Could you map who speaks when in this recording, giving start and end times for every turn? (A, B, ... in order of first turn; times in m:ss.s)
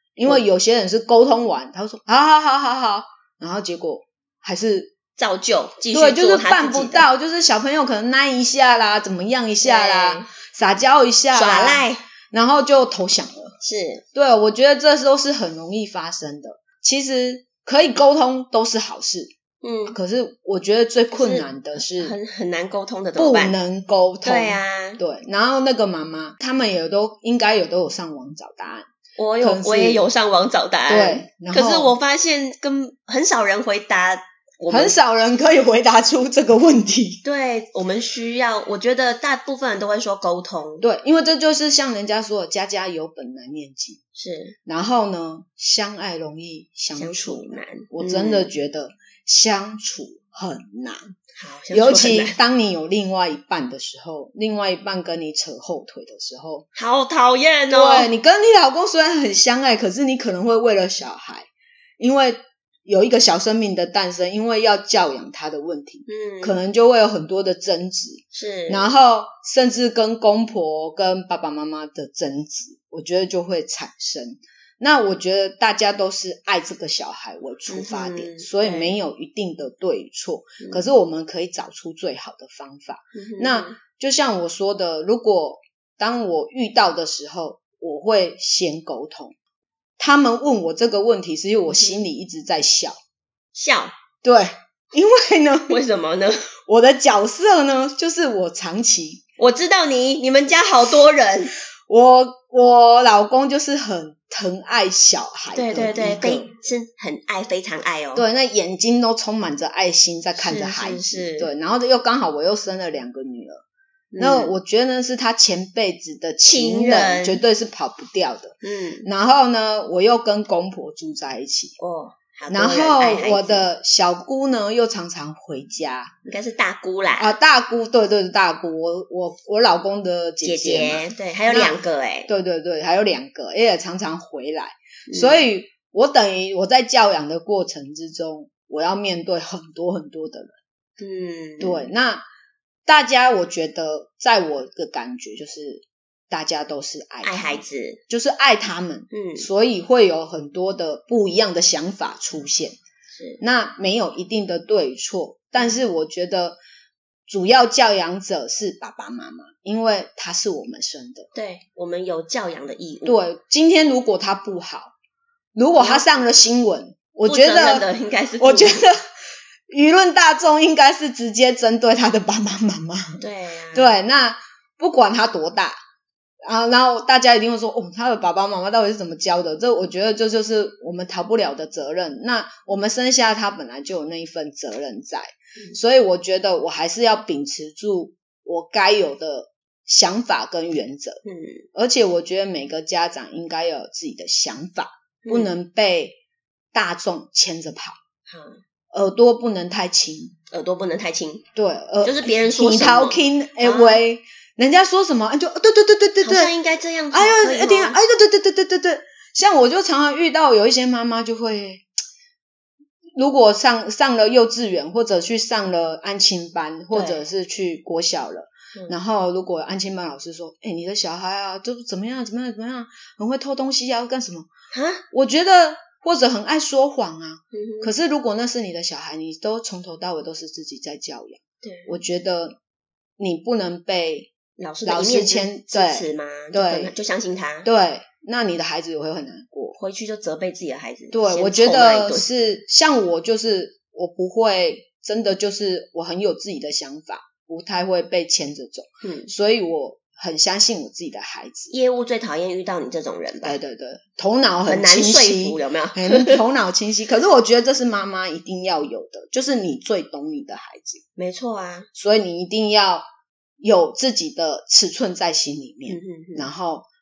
0:00.2-0:04.9 A
0:05.2-0:07.1 B
0:05.9-0:13.5 A
0:09.6-0:10.3 B
0:11.3-0:12.0 B
0:13.6-0:14.0 B
0:14.1-0:19.3 A
0:19.6-0:20.0 B
0:19.9-0:22.2 A
0:21.1-0:23.6 B
0:23.2-0:30.0 A
0:24.2-0:25.0 B
0:29.2-0:35.0 B
0:30.9-0:31.9 A
0:34.7-0:37.2 A
0:37.2-0:40.8 B
0:40.8-0:44.0 A
0:44.1-0:44.6 B
0:44.6-0:51.1 A
0:47.0-0:48.5 B
0:51.4-0:52.4 B
0:51.7-0:56.6 A
0:56.7-0:58.1 B
0:57.7-1:01.5 A
1:02.0-1:29.3 A
1:06.1-1:06.6 B
1:08.3-1:08.9 B
1:17.7-1:18.9 B
1:23.1-1:23.8 B
1:30.0-1:33.0 A
1:31.7-1:32.0 B
1:33.5-1:33.9 B
1:34.2-1:35.8 A
1:35.7-1:36.5 B
1:36.7-1:39.2 A
1:39.4-1:41.6 B
1:41.9-1:46.5 A
1:45.5-1:48.2 B
1:48.1-1:53.6 A
1:50.4-1:51.5 B
1:54.1-1:54.5 B
1:54.2-2:01.7 A
1:56.4-1:57.4 B
1:58.6-1:59.1 B
2:01.8-2:03.7 B
2:02.5-2:06.1 A
2:06.2-2:07.3 B
2:07.2-2:20.5 A
2:10.4-2:12.3 B
2:15.1-2:15.4 B
2:21.0-2:21.9 B
2:21.6-2:22.2 A
2:22.8-2:32.8 A
2:27.2-2:28.0 B
2:29.1-2:29.5 B
2:33.1-2:33.4 B
2:33.4-2:36.6 A
2:37.3-2:41.3 A
2:41.3-2:43.2 B
2:43.0-2:44.9 A
2:45.5-2:47.9 A
2:45.7-2:46.2 B
2:47.2-2:48.9 B
2:48.4-2:49.1 A
2:49.7-2:55.8 A
2:53.2-2:54.0 B
2:56.4-3:11.2 A
3:11.2-3:11.6 B
3:11.7-3:16.2 A
3:15.2-3:15.5 B
3:16.7-3:18.0 A
3:18.3-3:18.6 B
3:18.9-3:20.4 A
3:20.5-3:21.4 B
3:21.5-3:26.5 A
3:22.0-3:24.0 B
3:26.2-3:28.0 B
3:27.1-3:31.9 A
3:33.1-3:44.5 A
3:36.9-3:37.2 B
3:44.7-3:45.0 B
3:45.1-3:52.6 A
3:47.5-3:47.9 B
3:51.6-3:52.0 B
3:53.2-3:54.3 A
3:54.6-3:57.7 B
3:54.8-3:56.9 A
3:57.6-3:59.8 A
3:59.8-4:02.3 B
4:01.1-4:11.7 A
4:09.0-4:09.3 B
4:11.7-4:13.6 B
4:13.4-4:21.0 A
4:14.6-4:16.4 B
4:21.2-4:21.9 B
4:21.9-4:23.0 A
4:23.6-4:26.8 A
4:25.9-4:26.5 B